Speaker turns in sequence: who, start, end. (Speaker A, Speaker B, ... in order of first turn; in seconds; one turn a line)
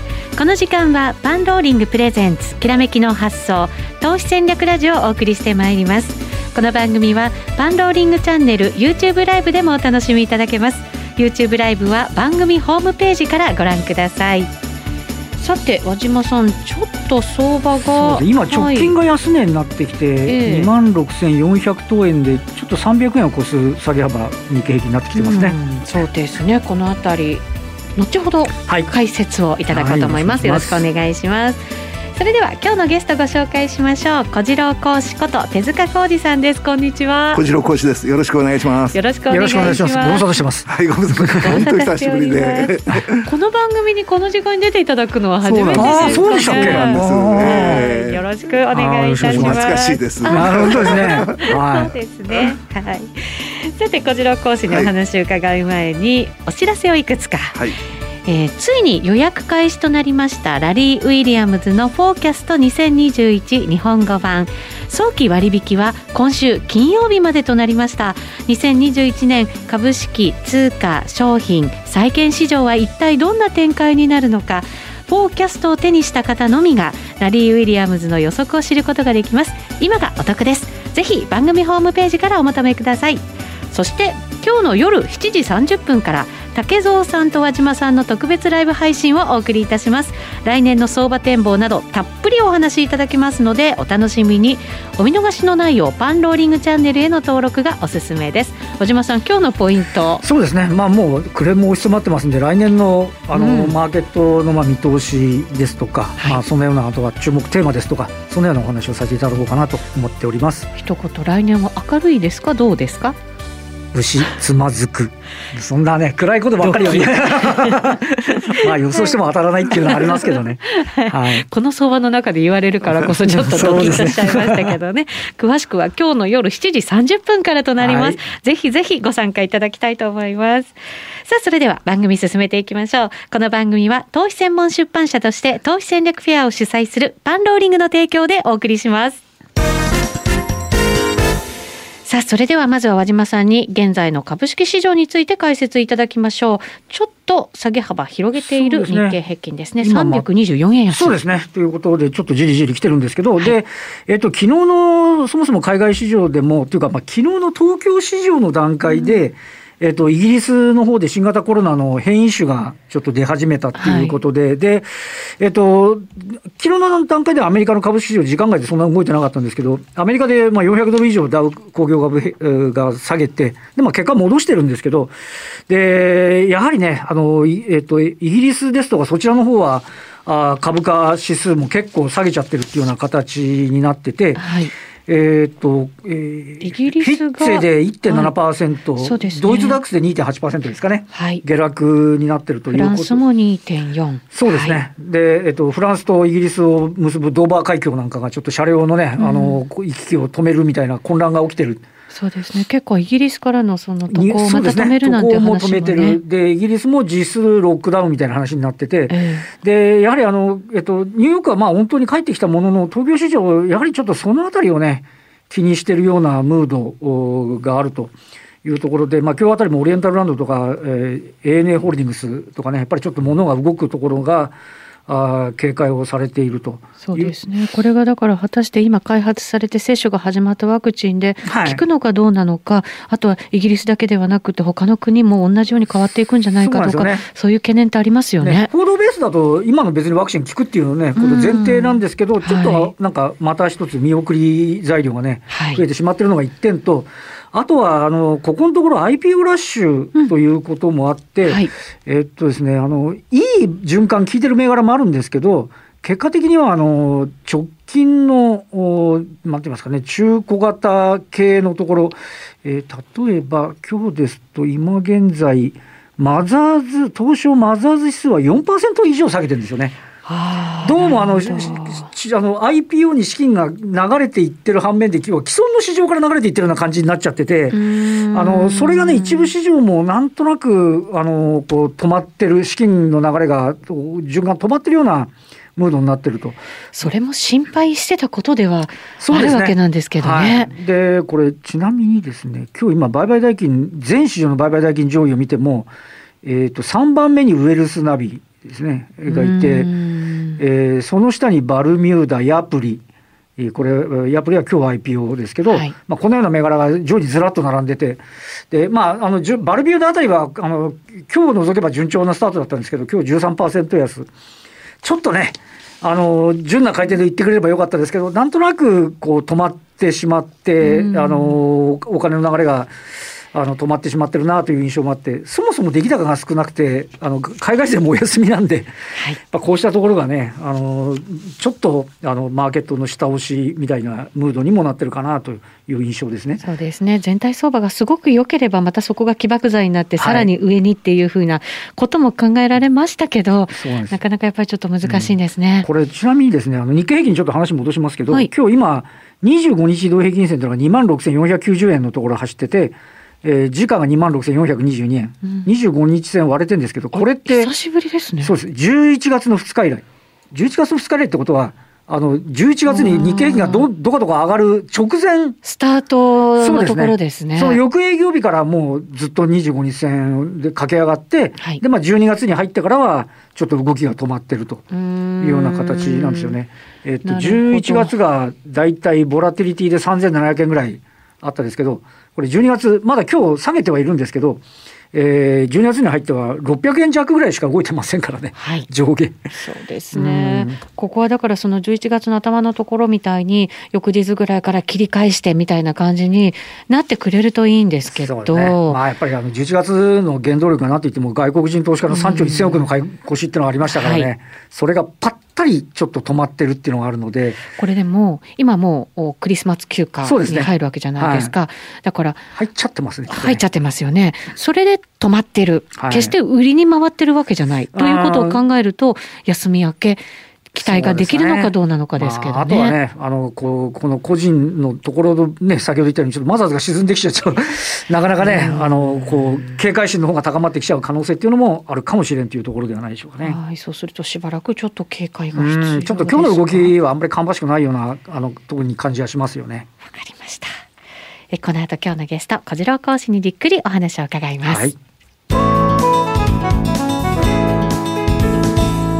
Speaker A: 0.3-14.5
Speaker A: 15.4-18.9
Speaker B: 17.8-25.6
Speaker A: 20.2-20.7
Speaker A: 25.1-31.6
Speaker B: 28.6-28.9
Speaker B: 29.7-30.8
Speaker A: 32.1-37.4
Speaker C: 37.3-39.0
Speaker A: 38.9-40.3
Speaker B: 39.3-41.6
Speaker C: 40.7-43.3
Speaker A: 41.4-57.6
Speaker C: 45.4-48.2
Speaker B: 45.7-47.9
Speaker B: 48.7-49.7
Speaker C: 49.2-51.5
Speaker B: 50.3-51.9
Speaker A: 58.2-100.2
Speaker B: 100.2-110.7
Speaker A: 103.3-103.8
Speaker A: 110.8-113.2
Speaker B: 113.9-121.5
Speaker A: 116.6-119.2
Speaker A: 119.7-139.2
Speaker B: 123.2-124.8
Speaker C: 123.6-123.9
Speaker B: 127.8-128.2
Speaker A: 142.1-151.2
Speaker B: 148.4-149.2
Speaker B: 149.8-150.2
Speaker B: 150.9-175.1
Speaker A: 158.9-159.1
Speaker A: 163.8-164.2
Speaker B: 175.7-184.4
Speaker A: 184.4-184.7
Speaker B: 185.1-193.2
Speaker A: 186.6-188.3
Speaker A: 189.0-189.8
Speaker A: 191.1-191.4
Speaker A: 192.7-194.8
Speaker B: 194.3-201.8
Speaker A: 199.2-199.6
Speaker A: 202.1-206.2
Speaker B: 204.1-218.1
Speaker A: 209.1-209.5
Speaker B: 218.6-224.5
Speaker B: 225.1-227.3
Speaker A: 227.0-238.7
Speaker B: 231.4-231.8
Speaker B: 236.6-237.3
Speaker B: 238.4-270.0
Speaker A: 241.2-242.9
Speaker A: 245.5-245.8
Speaker A: 270.2-272.1
Speaker B: 270.8-277.8
Speaker A: 277.7-279.5
Speaker B: 278.3-286.6
Speaker A: 286.9-290.7
Speaker B: 289.2-295.9
Speaker B: 296.4-299.9
Speaker A: 299.3-300.6
Speaker B: 300.6-303.0
Speaker B: 303.6-314.3
Speaker A: 305.6-305.9
Speaker B: 315.0-322.9
Speaker A: 320.8-321.6
Speaker B: 323.5-328.9
Speaker B: 329.5-336.6
Speaker A: 336.6-345.9
Speaker B: 340.2-340.5
Speaker B: 343.8-344.2
Speaker B: 345.0-357.7
Speaker A: 355.4-355.7
Speaker A: 357.1-358.5
Speaker B: 358.4-365.6
Speaker A: 362.9-363.9
Speaker A: 365.6-367.8
Speaker B: 366.6-374.8
Speaker A: 374.9-376.6
Speaker B: 375.4-389.5
Speaker A: 377.2-378.1
Speaker A: 388.6-388.9
Speaker A: 389.5-399.0
Speaker B: 390.1-390.8
Speaker B: 398.1-407.6
Speaker A: 402.1-402.8
Speaker A: 403.9-404.3
Speaker A: 407.8-412.5
Speaker B: 410.2-411.5
Speaker B: 412.5-413.6
Speaker A: 413.3-423.0
Speaker B: 415.9-416.3
Speaker B: 417.9-418.6
Speaker B: 420.8-433.6
Speaker A: 428.4-429.0
Speaker A: 433.4-436.9
Speaker B: 435.5-439.9
Speaker A: 440.0-440.8
Speaker A: 441.5-444.9
Speaker B: 444.6-445.0